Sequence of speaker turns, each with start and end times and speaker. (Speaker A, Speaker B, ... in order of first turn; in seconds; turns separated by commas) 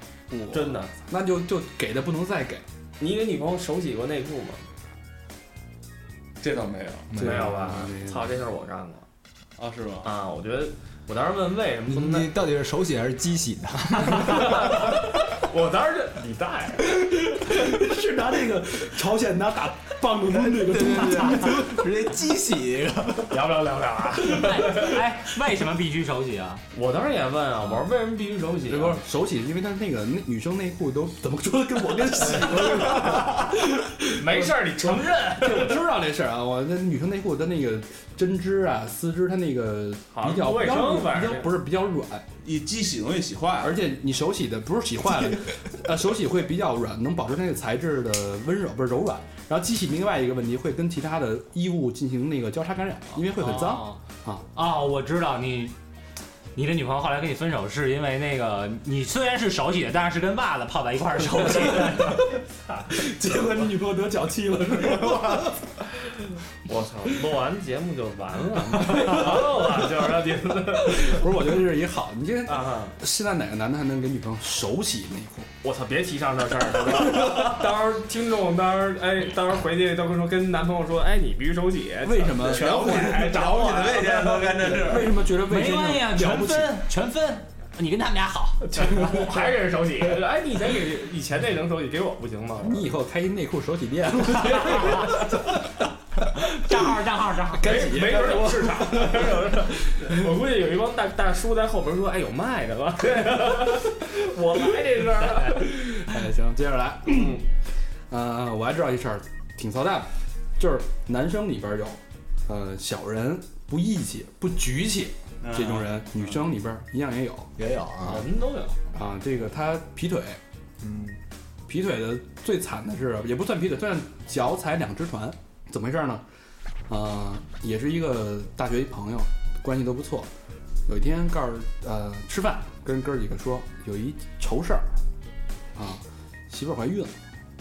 Speaker A: 0.3-2.6, Speaker B: 0.5-0.9, Speaker B: 3.0-4.6, Speaker C: 6.4-7.1, Speaker D: 7.1-7.5, Speaker A: 7.1-8.3, Speaker B: 7.2-9.1, Speaker C: 9.6-10.1, Speaker B: 10.0-12.3, Speaker D: 11.9-14.9, Speaker B: 14.0-17.0, Speaker A: 16.8-21.9, Speaker D: 20.5-23.3, Speaker B: 23.3-25.0, Speaker E: 24.3-26.6, Speaker B: 26.7-29.0, Speaker A: 28.7-42.2, Speaker B: 32.2-33.5, Speaker B: 34.2-35.8, Speaker B: 40.1-41.5, Speaker C: 42.4-43.8, Speaker A: 43.6-54.4, Speaker E: 53.3-54.0, Speaker E: 54.5-55.7, Speaker E: 56.5-62.3, Speaker A: 61.4-62.3, Speaker A: 62.9-65.6, Speaker B: 66.6-71.3, Speaker A: 68.7-69.5, Speaker A: 70.8-75.5, Speaker B: 72.5-73.0, Speaker B: 75.6-84.8, Speaker A: 77.1-77.6, Speaker A: 82.0-83.5, Speaker C: 82.4-85.2, Speaker A: 84.5-86.8, Speaker E: 85.4-89.1, Speaker B: 88.7-92.9, Speaker A: 88.7-89.5, Speaker A: 92.6-95.7, Speaker B: 94.7-95.4, Speaker A: 96.5-96.8, Speaker E: 96.5-97.9, Speaker A: 97.5-100.3, Speaker B: 97.6-105.8, Speaker A: 105.5-107.5, Speaker A: 108.1-117.5, Speaker C: 115.4-116.0, Speaker D: 117.6-118.3, Speaker B: 118.0-118.8, Speaker A: 118.9-120.4, Speaker D: 120.8-121.2, Speaker A: 121.7-126.2, Speaker A: 126.9-130.3, Speaker A: 130.8-134.9, Speaker A: 135.7-137.1